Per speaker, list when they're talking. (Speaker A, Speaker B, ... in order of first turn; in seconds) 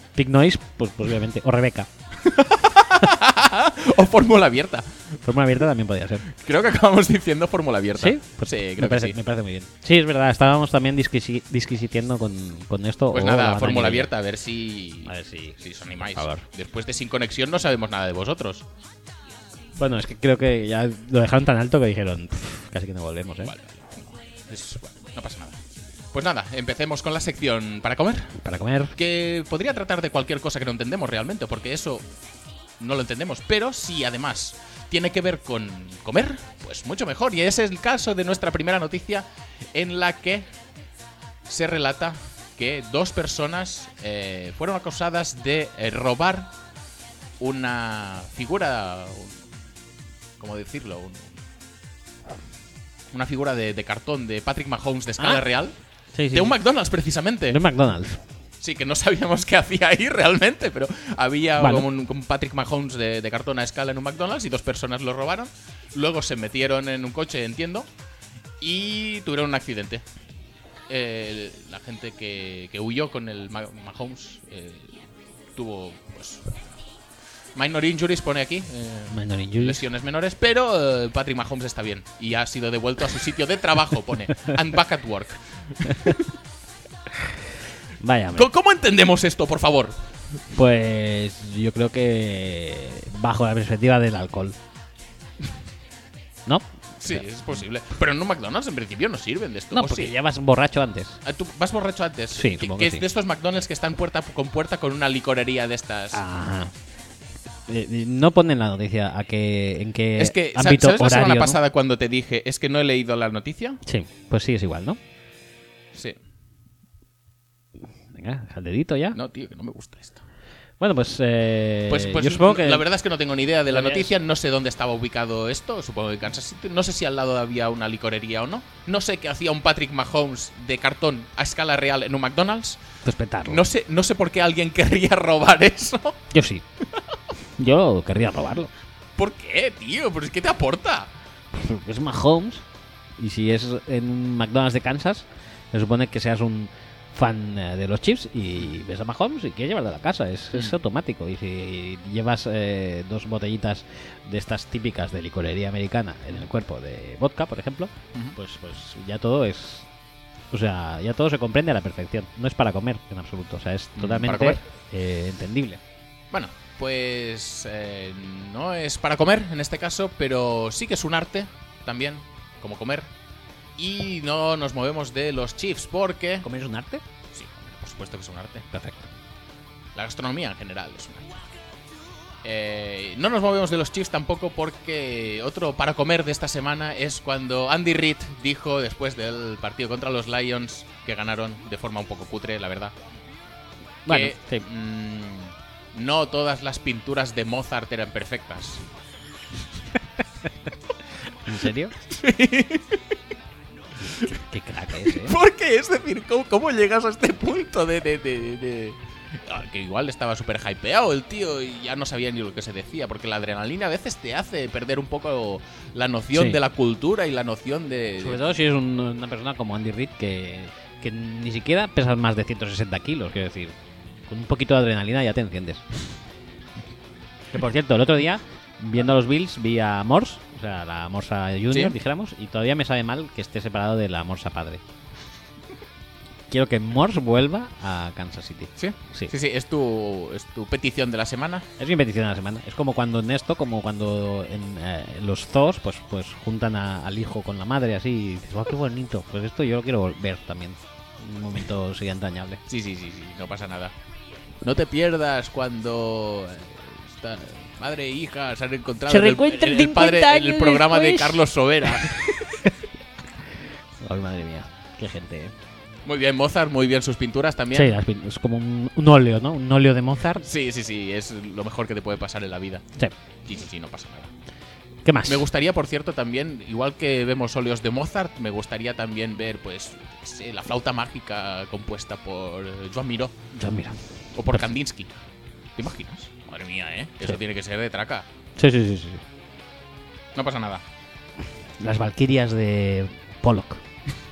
Speaker A: 0.1-1.9, 5.2-6.3, 8.0-14.1, 15.1-16.4, 19.8-23.5, 28.4-29.0, 55.2-55.4, 56.1-56.5, 57.5-58.2, 61.6-61.9, 79.1-79.8, 85.9-86.2, 88.0-88.5, 90.5-94.6, 96.5-97.3, 99.7-101.2, 102.3-103.0, 106.1-106.7, 107.7-111.6, 113.8-115.0, 118.1-119.2, 120.8-122.9, 123.7-124.1, 133.1-133.6, 136.3-136.6, 137.6-138.7, 141.5-142.6, 143.2-159.9, 160.5-165.8, 176.4-177.0, 178.7-179.1, 194.1-194.7, 201.4-201.9, 204.1-205.4, 216.3-216.6, 218.2-223.8, 224.3-225.8, 227.5-234.8, 236.5-239.3, 241.8-252.6, 259.1-261.4, 261.9-262.2, 264.0-265.5, 267.7-270.4, 275.1-275.4, 283.5-284.6, 288.6-289.2, 291.8-293.8
Speaker B: 2.2-5.1, 6.3-9.2, 13.1-18.6, 23.4-25.6, 26.1-28.4, 28.9-32.0, 32.8-40.5, 41.5-46.5, 47.4-49.4, 50.4-51.4, 53.1-55.8, 56.3-57.6, 58.6-67.9, 68.6-70.0, 70.9-76.6, 77.5-86.3, 88.3-90.0, 97.0-100.1, 101.2-106.2, 110.2-113.8, 115.9-116.2, 119.1-120.2, 121.9-132.8, 133.4-136.2, 139.2-141.1, 164.0-164.6, 166.3-173.1, 173.8-176.5, 177.3-178.7, 179.9-181.4, 182.4-192.9, 194.1-198.9, 202.0-203.2, 205.0-218.4, 231.7-231.9, 238.8-241.7, 252.7-253.9, 254.6-262.7, 266.1-267.9, 270.4-272.9, 273.4-274.3, 275.2-283.3, 284.3-285.1, 285.8-288.3, 290.3-290.8